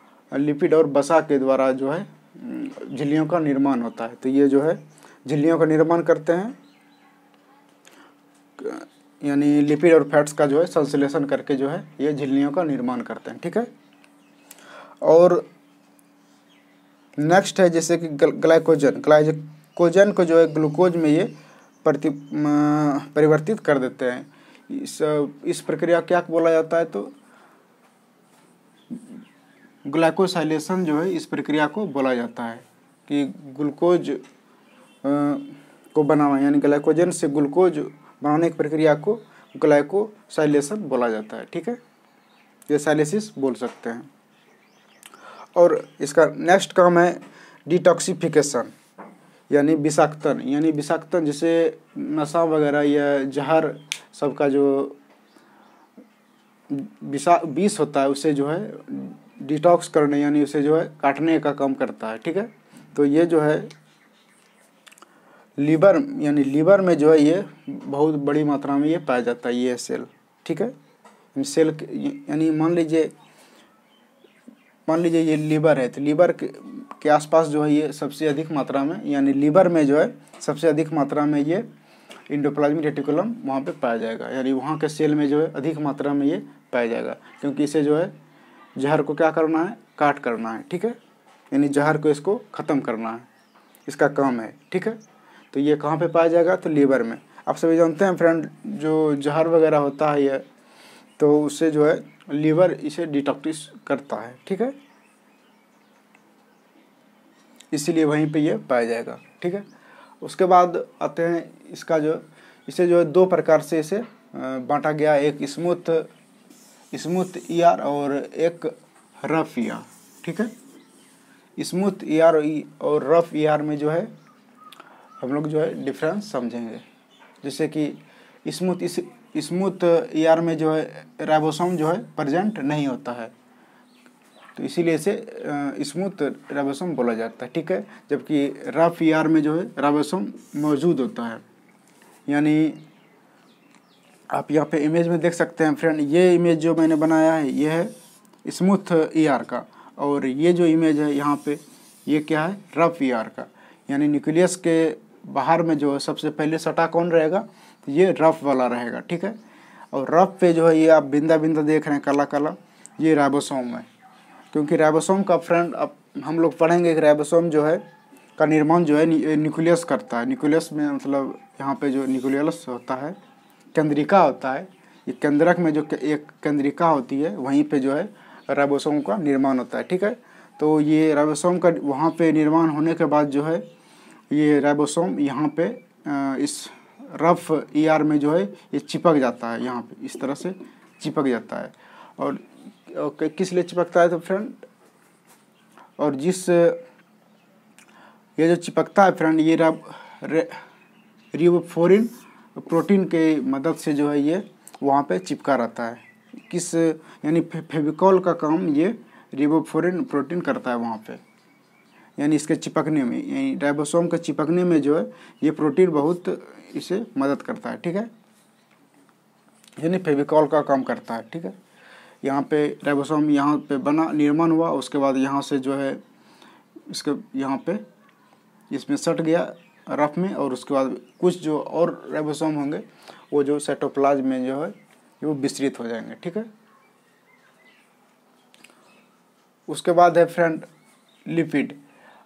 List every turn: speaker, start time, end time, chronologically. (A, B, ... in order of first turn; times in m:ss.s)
0:00.3-0:06.6 A
0:08.6-0:13.7 A
0:15.0-0:15.5 A
0:17.2-0:27.1 A
0:29.9-0:34.2 A
0:35.0-0:41.8 A
0:42.7-0:44.1 A
0:45.6-0:48.7 A
0:49.5-0:55.0 A
0:56.7-1:03.7 A
1:05.6-1:10.7 A
1:11.4-1:13.1 A
1:14.9-1:21.6 A
1:22.3-1:28.1 A
1:28.8-1:31.0 A
1:31.5-1:33.3 A
1:33.9-1:35.0 A
1:35.5-1:40.4 A
1:41.2-1:44.8 A
1:47.7-1:49.6 A
1:50.2-1:56.1 A
1:56.9-2:00.5 A
2:01.6-2:04.1 A
2:05.2-2:06.8 A
2:07.4-2:13.3 A
2:14.6-2:21.4 A
2:22.3-2:22.8 A
2:24.3-2:27.9 A
2:28.4-2:39.4 A
2:39.9-2:43.9 A
2:44.5-2:47.8 A
2:48.4-2:53.2 A
2:53.7-3:03.6 A
3:04.3-3:14.6 A
3:16.0-3:16.8 A
3:18.4-3:20.6 A
3:21.3-3:31.2 A
3:32.2-3:38.1 A
3:39.8-3:41.5 A
3:42.2-3:46.0 A
3:46.9-3:47.8 A
3:48.7-3:56.5 A
3:59.7-4:00.7 A
4:01.3-4:01.8 A